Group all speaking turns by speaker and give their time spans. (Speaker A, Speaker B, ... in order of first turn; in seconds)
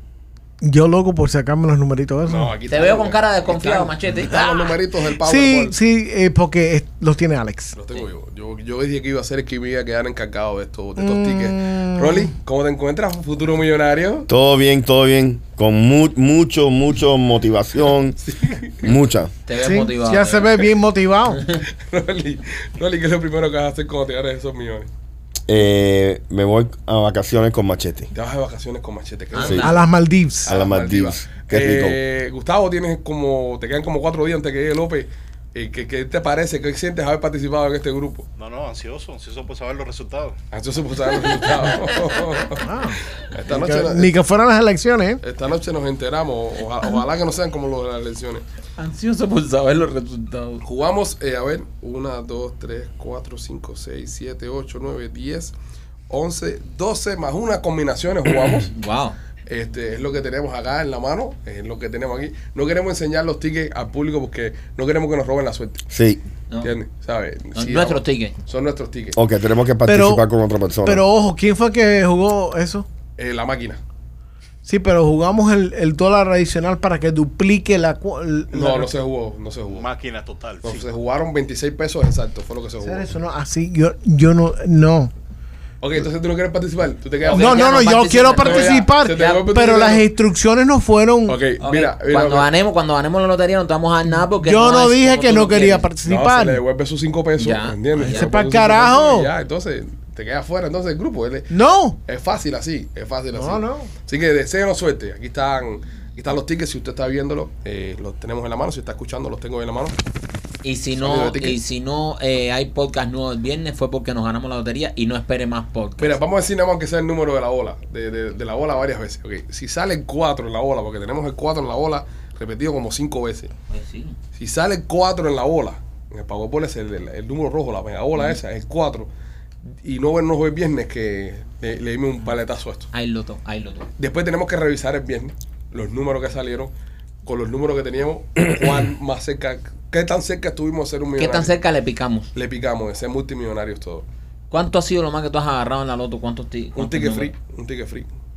Speaker A: 0.6-2.5, 5.2-7.8, 11.0-12.3, 19.6-21.4, 29.6-30.5, 42.6-45.2, 69.8-70.2, 70.8-72.8, 74.6-78.9, 82.8-85.1, 87.2-91.4, 94.2-96.6, 98.0-99.3, 101.5-102.0, 103.3-103.9
Speaker B: 2.3-5.8, 7.7-14.3, 18.2-18.9, 21.8-24.9, 28.1-29.8, 30.4-38.2, 40.5-44.1, 45.2-48.4, 50.6-55.5, 56.1-58.7, 59.5-65.8, 66.6-69.2, 73.2-73.8, 78.5-79.9, 80.6-83.0, 85.8-87.7, 88.3-90.1, 91.3-92.5, 96.0-101.5, 102.0-110.0, 111.0-111.6, 116.0-123.5, 124.3-129.1, 129.7-132.9, 134.0-136.7, 137.2-141.5, 142.3-144.1, 146.8-148.1
Speaker C: 2.7-4.7, 19.4-20.5, 21.3-21.6, 29.3-29.8, 41.3-42.2, 48.8-50.6, 58.7-59.1, 67.5-68.3, 87.2-89.4, 91.6-95.9, 97.4-98.3, 110.6-116.2, 123.7-124.2, 132.9-133.9, 141.2-142.3, 144.5-147.3
Speaker D: 14.3-18.2, 18.8-19.3, 25.5-28.1, 30.4-32.0, 65.9-66.2, 69.1-71.0
Speaker E: 38.4-40.4, 79.7-80.9